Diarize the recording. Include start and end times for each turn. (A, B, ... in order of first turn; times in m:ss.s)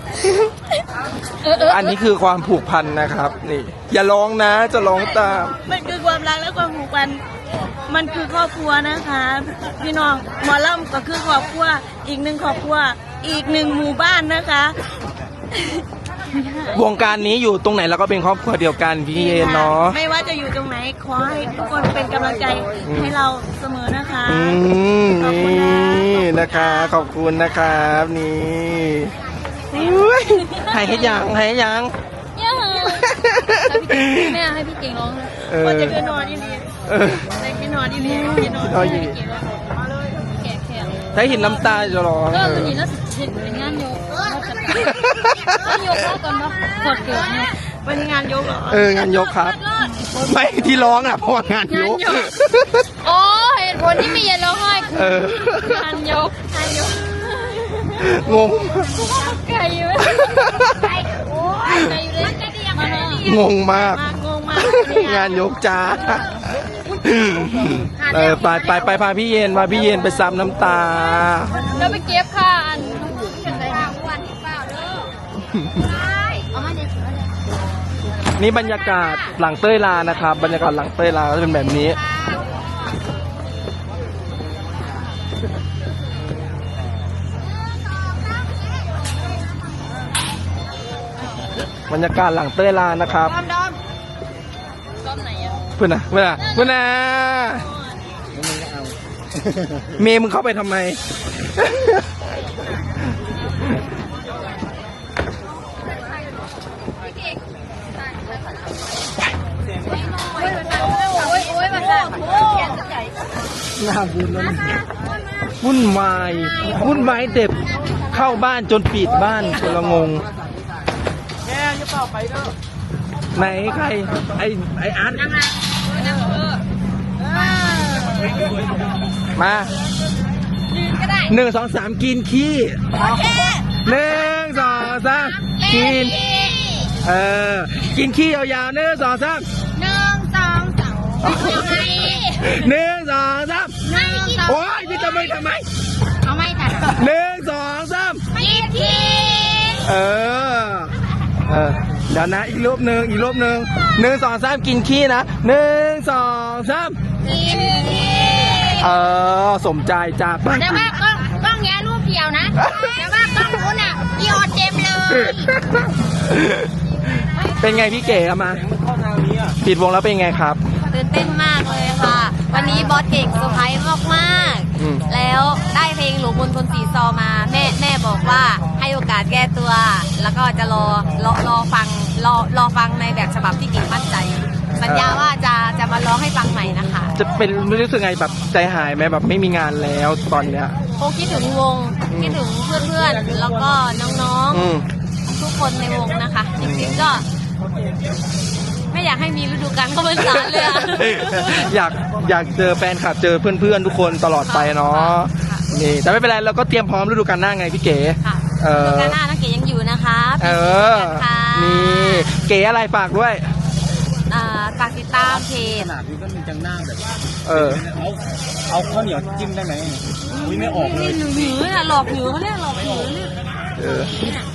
0:01.5-0:05.5 A
0:05.6-0:07.2 B
0:07.9-0:14.8 B
0:16.4-0:16.7 B
0:16.7-0:20.0 A
0:19.1-0:24.6 B
0:22.8-0:23.1 A
0:24.3-0:29.2 A
0:25.1-0:27.0 B
0:29.7-0:31.9 A
0:32.4-0:35.4 C
0:32.8-0:34.4 A
0:35.4-0:36.0 A
0:35.6-0:36.7 B
0:36.9-0:37.3 A
0:37.3-0:39.1 B
0:38.6-0:39.2 A
0:40.3-0:41.0 C
0:41.1-0:42.8 A
0:42.4-0:45.0 C
0:44.9-0:46.1 A
0:45.6-0:47.5 C
0:47.8-0:49.0 B
0:48.7-0:52.8 A
0:51.7-0:52.3 C
0:53.0-0:55.0 C
0:54.9-0:56.0 A
0:55.6-0:57.5 B
0:55.8-0:56.4 C
0:57.9-0:59.2 A
0:59.1-1:00.6 C
1:00.1-1:00.9 A
1:01.7-1:01.9 A
1:01.8-1:03.2 C
1:03.1-1:04.0 A
1:03.7-1:05.5 B
1:04.6-1:11.8 A
1:11.7-1:13.4 C
1:18.4-1:22.0 A
1:31.9-1:33.4 A
1:35.8-1:37.7 A
1:38.4-1:38.9 D
1:40.0-1:41.0 A
1:41.6-1:42.0 A
1:50.6-1:52.2 C
1:53.8-1:54.7 A
1:55.6-2:00.2 A
2:03.3-2:05.4 A
2:09.4-2:09.7 A
2:11.3-2:12.8 A
2:13.8-2:16.2 A
2:15.8-2:16.9 E
2:17.0-2:19.5 A
2:19.8-2:22.1 E
2:21.2-2:25.6 A
2:23.9-2:24.6 E
2:26.3-2:26.8 E
2:26.8-2:28.2 A
2:28.4-2:29.1 E
2:29.2-2:29.7 C
2:29.8-2:30.9 A
2:31.5-2:37.0 A
2:37.6-2:38.1 E
2:38.7-2:41.0 A
2:40.9-2:42.5 E
2:42.6-2:43.0 A
2:43.4-2:45.3 E
2:45.1-2:46.7 A
2:47.6-2:48.7 A
2:49.1-2:49.4 D
2:49.6-2:50.6 A
2:50.9-3:07.1 F
2:54.8-2:55.1 A
3:04.7-3:05.3 A
3:07.1-3:10.8 A
3:11.0-3:14.6 F
3:12.1-3:12.4 A
3:13.0-3:13.5 D
3:14.5-3:14.9 A
3:15.3-3:16.7 F
3:16.6-3:17.2 A
3:18.9-3:20.7 F
3:20.1-3:29.2 A
3:24.4-3:25.6 F
3:28.2-3:32.1 F
3:30.4-3:33.5 A
3:34.3-3:35.9 F
3:35.2-3:37.1 D
3:37.5-3:37.8 A
3:37.9-3:38.1 D
3:38.7-3:40.0 D
3:40.6-3:41.4 D
3:41.1-3:43.1 F
3:43.8-3:44.4 A